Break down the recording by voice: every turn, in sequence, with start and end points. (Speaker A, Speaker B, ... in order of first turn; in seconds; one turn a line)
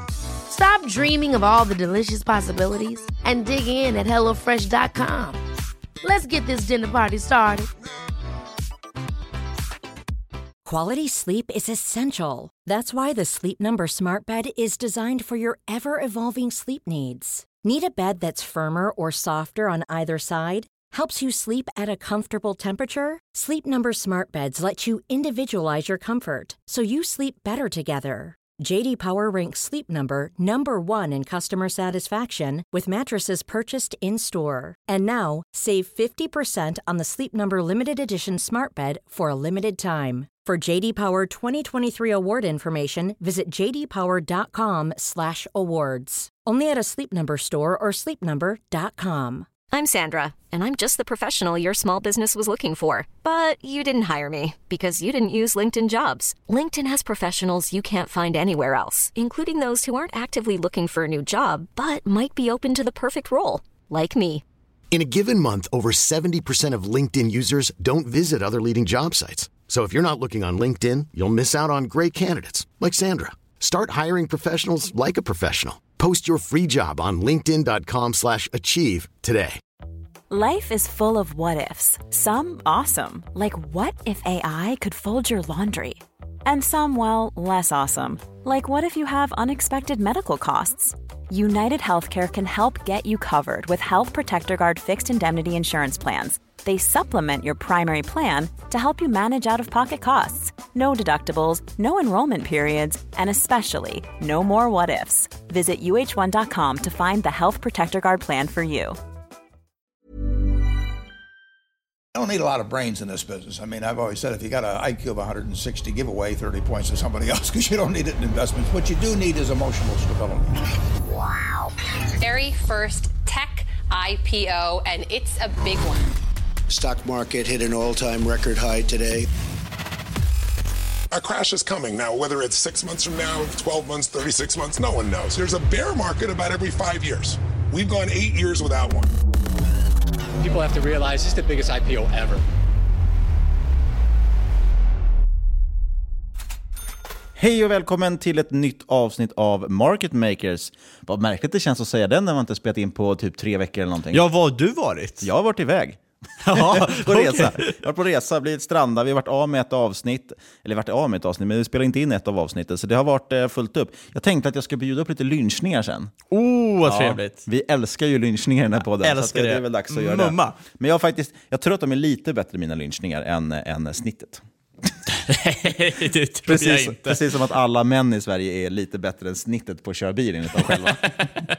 Speaker A: 0.5-5.4
Speaker A: 6.0-7.7
Speaker B: 10.7-49.5
Speaker C: 49.7-64.4
Speaker D: 64.9-79.6
Speaker E: 80.3-109.0
Speaker F: 112.1-120.6
Speaker G: 122.2-126.1
Speaker H: 126.7-129.2
Speaker I: 131.1-139.1
Speaker J: 140.4-142.4
Speaker K: 147.4-154.2
Speaker L: 154.1-155.3
Speaker K: 155.2-156.0
Speaker L: 156.4-157.7
Speaker K: 156.5-166.1
Speaker L: 166.3-167.4
Speaker K: 166.8-174.4
Speaker L: 169.0-170.6
Speaker L: 175.3-177.2
Speaker K: 176.5-181.2